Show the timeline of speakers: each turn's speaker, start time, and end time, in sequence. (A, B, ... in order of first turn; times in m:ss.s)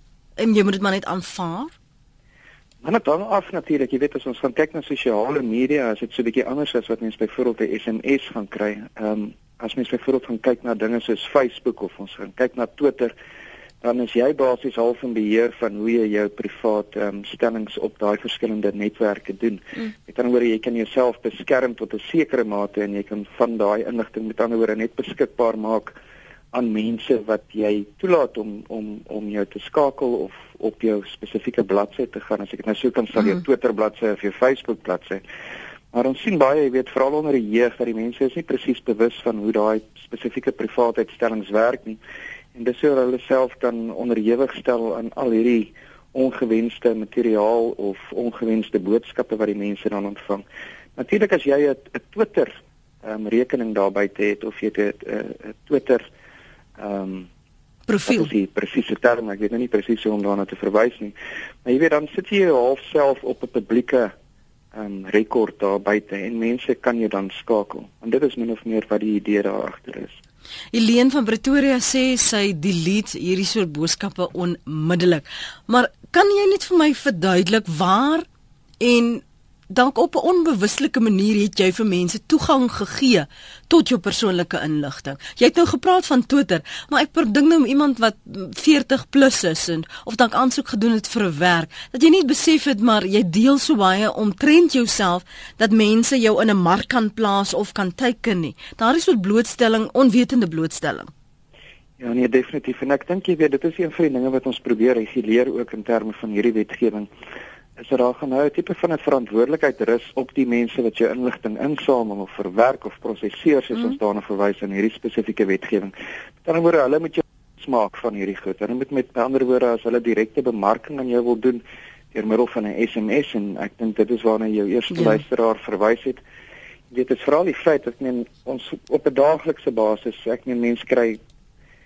0:00.4-0:01.7 A
0:02.8-0:13.2 B
0:13.8-0:26.0 B
0:26.5-0:35.2 B
0:35.9-0:42.0 B
0:42.6-0:50.4 B
0:51.0-0:56.1 B
0:56.8-0:57.3 B
0:57.9-0:58.3 A
0:58.0-1:04.1 B
1:04.7-1:10.2 B
1:10.7-1:18.3 A
1:18.8-1:41.1 A
1:42.0-1:47.1 B
1:47.8-2:06.2 B
2:04.9-2:05.2 A
2:06.9-2:11.2 B